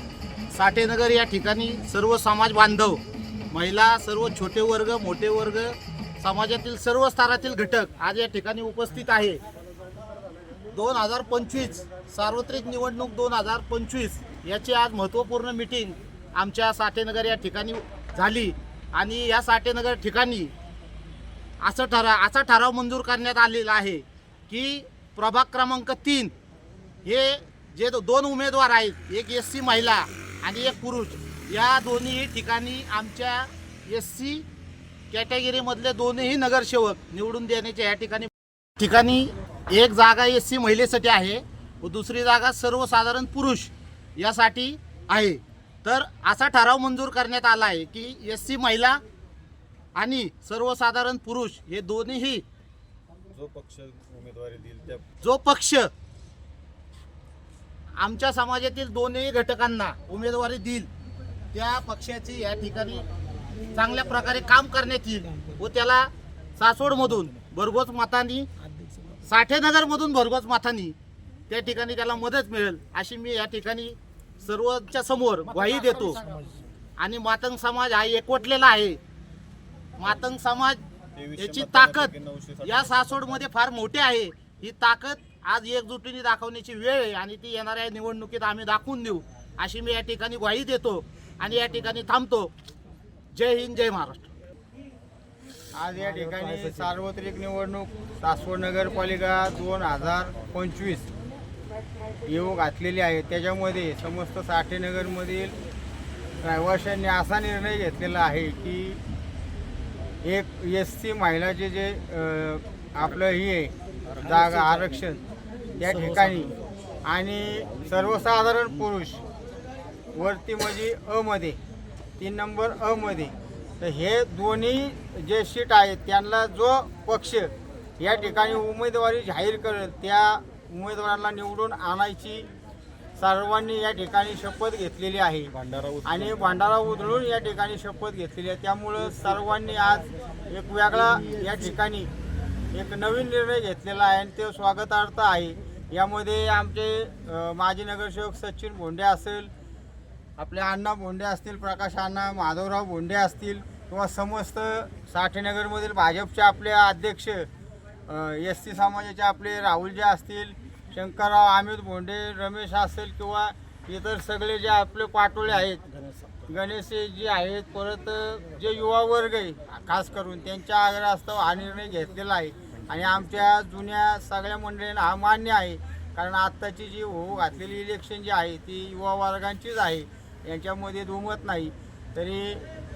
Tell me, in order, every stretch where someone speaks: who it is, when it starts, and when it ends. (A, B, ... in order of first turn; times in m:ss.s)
0:00.5-0:09.4 A
0:10.7-0:20.5 A
0:21.6-0:26.3 A
0:27.0-0:34.5 A
0:35.1-0:49.0 A
0:50.0-0:52.4 A
0:53.3-0:55.0 B
0:55.2-0:55.9 A
0:58.0-1:00.9 A
1:01.5-1:03.1 A
1:03.7-1:08.5 A
1:09.2-1:11.0 A
1:11.5-1:16.4 A
1:17.0-1:19.0 A
1:20.0-1:20.8 A
1:21.2-1:23.3 B
1:21.4-1:32.5 A
1:33.3-1:34.3 A
1:35.8-1:41.1 C
1:42.3-1:45.6 C
1:46.4-1:49.0 C
1:50.2-1:55.2 C
1:55.8-1:56.5 C
1:57.1-1:59.2 C
2:00.2-2:01.6 C
2:02.2-2:12.5 C
2:13.2-2:15.5 C
2:15.5-2:16.6 B
2:16.0-2:22.1 C
2:22.7-2:29.5 C
2:30.4-2:37.5 C
2:38.1-2:45.8 C
2:46.5-3:02.7 C